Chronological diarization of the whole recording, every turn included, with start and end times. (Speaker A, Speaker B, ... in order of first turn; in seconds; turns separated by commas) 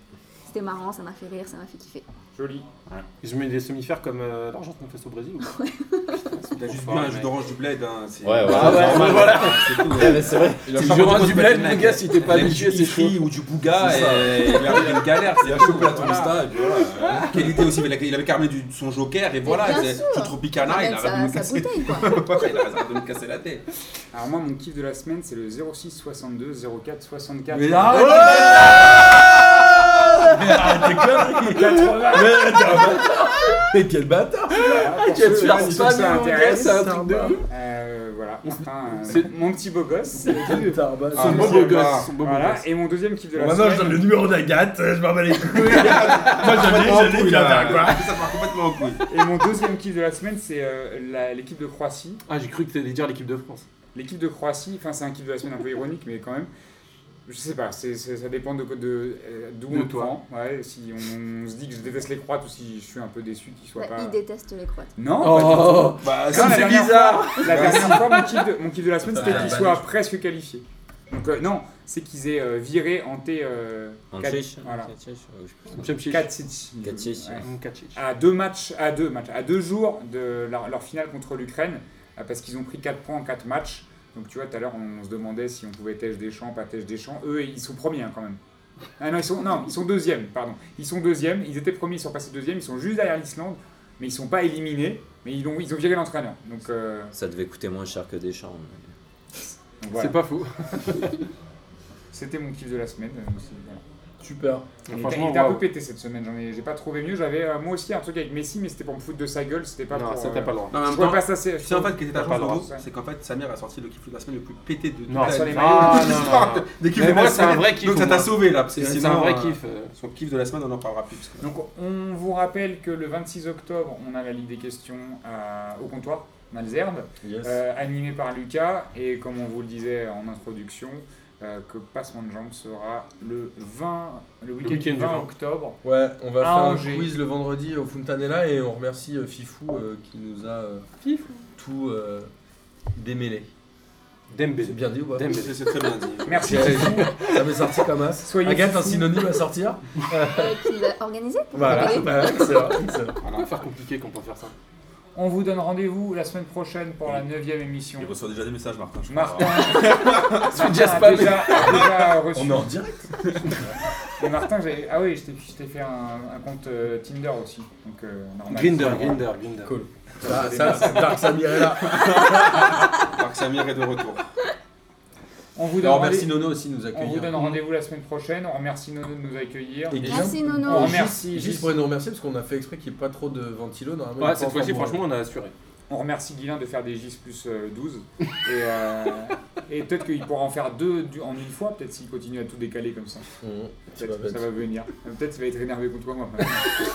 Speaker A: 0.5-2.1, Speaker B: 2.3-2.7, Speaker C: 3.2-5.5, Speaker A: 5.4-6.2, Speaker C: 6.3-7.4, Speaker D: 6.5-16.4, Speaker E: 8.2-11.1, Speaker C: 8.4-10.2, Speaker F: 10.7-11.2, Speaker C: 10.7-13.2, Speaker G: 13.8-14.8, Speaker C: 14.4-15.1, Speaker G: 15.3-17.6, Speaker B: 16.1-16.3, Speaker C: 16.6-17.2, Speaker D: 17.1-23.7, Speaker A: 19.4-22.5, Speaker B: 24.1-28.7, Speaker F: 27.5-29.0, Speaker C: 27.9-28.8, Speaker F: 29.7-34.7, Speaker B: 31.3-32.8, Speaker C: 33.0-33.5, Speaker B: 34.5-36.9, Speaker C: 34.6-37.4, Speaker F: 35.3-36.1, Speaker F: 36.7-37.4, Speaker B: 37.5-44.1, Speaker F: 40.3-41.5, Speaker D: 41.1-42.1, Speaker C: 41.2-42.6, Speaker F: 43.4-48.0, Speaker D: 45.7-49.0, Speaker B: 49.1-52.2, Speaker C: 52.3-53.7, Speaker B: 53.9-56.5, Speaker B: 57.3-64.2, Speaker C: 59.7-60.1, Speaker A: 63.8-64.9, Speaker B: 65.0-74.9, Speaker C: 65.2-68.1, Speaker D: 66.0-68.3, Speaker F: 69.0-69.9, Speaker E: 69.2-69.7, Speaker E: 74.1-75.8, Speaker C: 75.7-76.3, Speaker B: 76.1-88.4, Speaker E: 76.8-77.5, Speaker C: 77.4-78.0, Speaker B: 89.0-97.1, Speaker E: 97.2-98.9, Speaker B: 99.8-100.2, Speaker C: 99.9-101.2, Speaker B: 102.1-103.8, Speaker F: 104.2-104.7, Speaker C: 104.9-105.7, Speaker B: 104.9-112.8, Speaker C: 109.9-110.8, Speaker D: 110.7-121.5, Speaker C: 115.1-119.9, Speaker B: 115.2-116.2, Speaker B: 121.4-135.8, Speaker F: 127.2-127.6, Speaker C: 134.6-135.3, Speaker F: 135.8-140.9, Speaker B: 136.4-137.2, Speaker C: 141.0-141.4, Speaker F: 141.6-142.3, Speaker F: 142.9-143.5, Speaker C: 144.3-145.6, Speaker F: 144.6-145.2, Speaker D: 145.2-146.4, Speaker B: 146.2-147.1, Speaker F: 146.4-150.6, Speaker C: 146.9-147.4, Speaker B: 148.2-149.3, Speaker A: 150.3-152.6, Speaker F: 151.5-153.2, Speaker D: 153.2-153.5, Speaker C: 153.3-154.5, Speaker B: 155.2-158.2, Speaker G: 158.0-160.5, Speaker B: 159.1-162.8, Speaker C: 159.4-161.7, Speaker F: 162.3-163.0, Speaker B: 164.2-169.2, Speaker C: 168.5-169.8, Speaker F: 169.6-172.1, Speaker B: 170.2-171.3, Speaker G: 171.9-172.6, Speaker D: 172.9-174.2, Speaker B: 175.6-176.3, Speaker F: 175.8-177.6, Speaker B: 176.9-181.7, Speaker F: 179.9-185.0, Speaker A: 180.0-181.1, Speaker C: 184.2-185.5, Speaker B: 185.9-193.3, Speaker F: 193.4-194.5, Speaker B: 194.0-196.8